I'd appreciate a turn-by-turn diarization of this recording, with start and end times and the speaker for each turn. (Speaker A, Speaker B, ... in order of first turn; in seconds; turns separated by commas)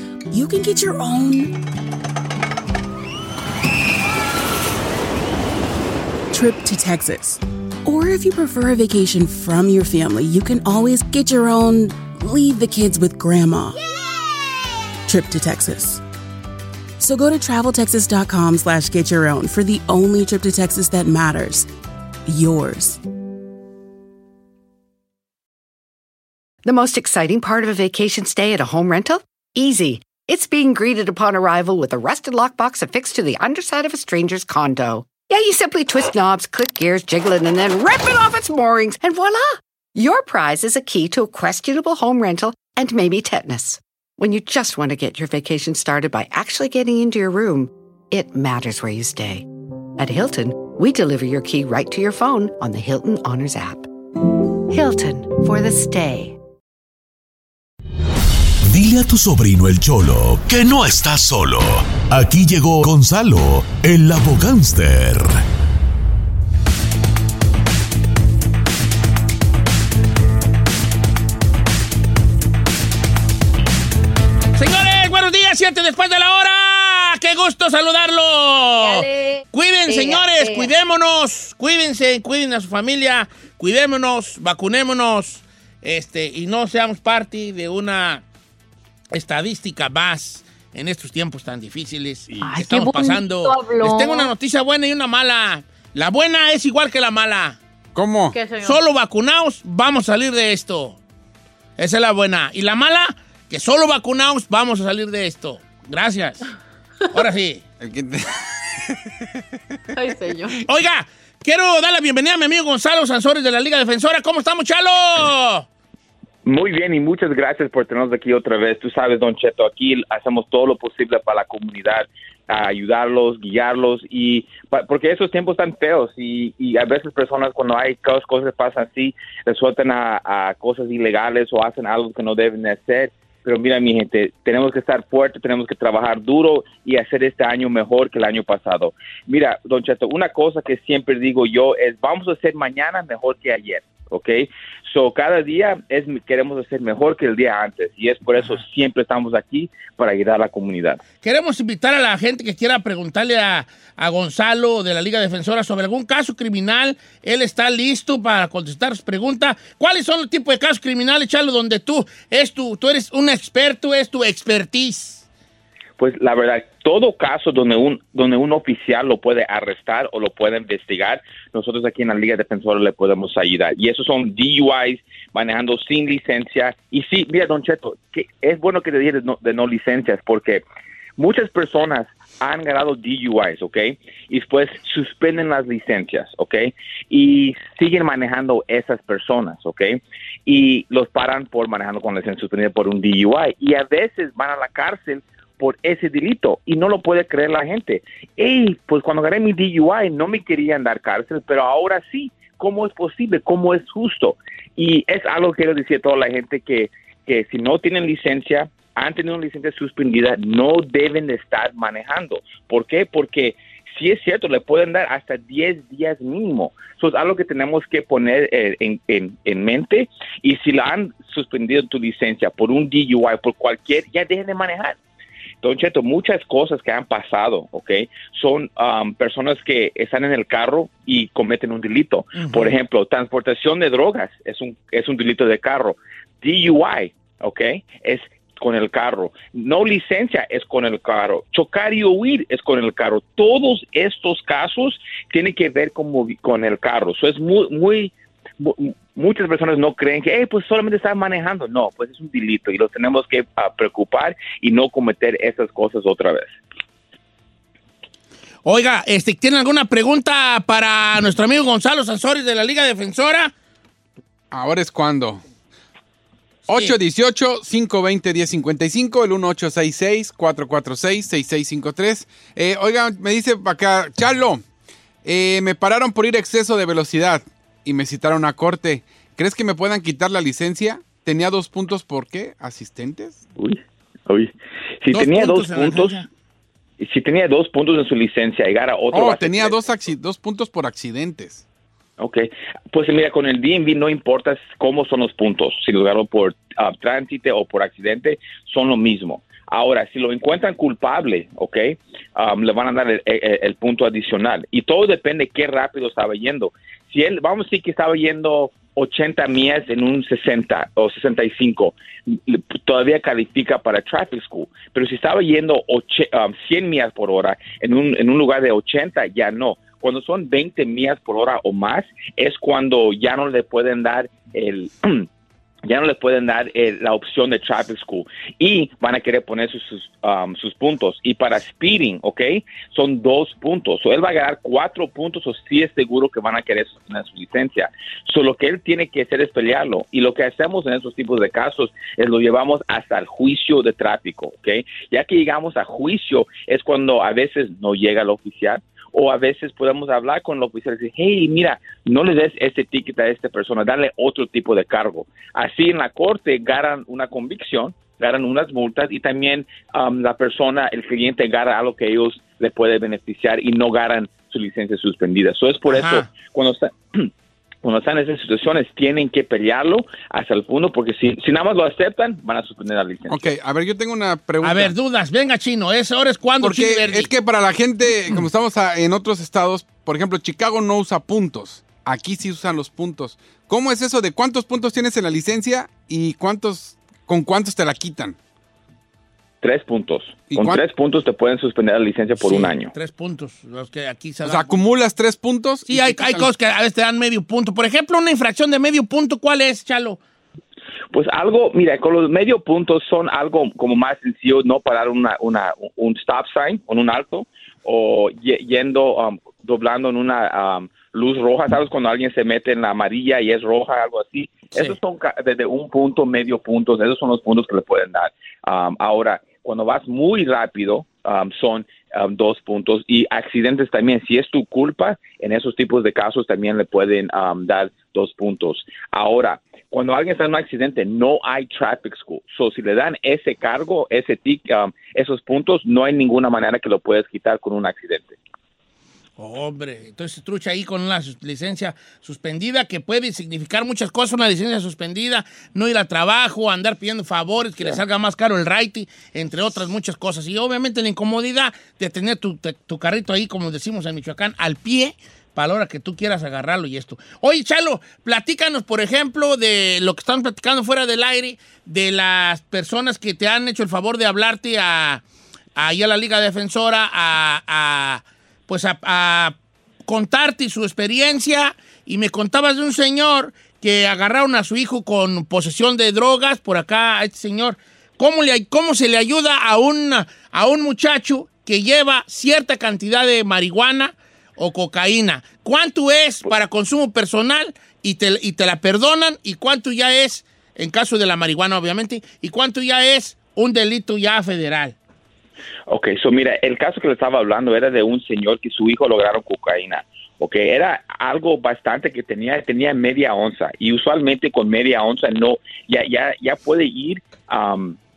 Speaker A: 0.3-1.6, Speaker A: 6.3-13.8, Speaker A: 15.1-16.0, Speaker A: 17.0-21.7, Speaker A: 22.3-23.0, Speaker B: 26.6-49.5, Speaker B: 50.0-53.9, Speaker B: 54.7-56.4, Speaker C: 58.7-65.4, Speaker D: 74.5-88.2, Speaker E: 78.8-80.7, Speaker D: 89.1-97.6, Speaker E: 92.4-94.3, Speaker F: 97.9-98.4, Speaker E: 98.3-98.8, Speaker D: 98.6-101.0, Speaker D: 101.8-106.5, Speaker D: 107.1-107.6, Speaker F: 107.8-109.0, Speaker E: 110.0-110.5, Speaker D: 110.6-115.7, Speaker G: 116.4-151.0, Speaker D: 148.4-148.6, Speaker D: 151.2-165.2, Speaker G: 166.0-180.6, Speaker G: 181.2-225.0, Speaker G: 225.6-256.5, Speaker D: 232.3-232.7, Speaker D: 258.6-263.5, Speaker F: 264.5-265.4, Speaker F: 266.7-274.6, Speaker F: 275.2-283.4, Speaker G: 283.6-286.2, Speaker D: 285.1-286.3, Speaker G: 287.0-289.8, Speaker F: 289.1-291.6, Speaker G: 292.2-325.3, Speaker G: 325.8-367.3, Speaker D: 365.9-366.3, Speaker G: 367.8-373.5, Speaker F: 373.3-374.9, Speaker D: 374.6-377.3, Speaker F: 376.6-388.4, Speaker G: 389.6-392.9, Speaker F: 390.5-390.8, Speaker D: 392.4-394.7, Speaker F: 394.4-396.5, Speaker D: 395.9-400.2, Speaker G: 401.1-438.4, Speaker D: 439.4-465.2, Speaker D: 465.8-469.6, Speaker D: 470.1-494.9, Speaker G: 495.9-508.0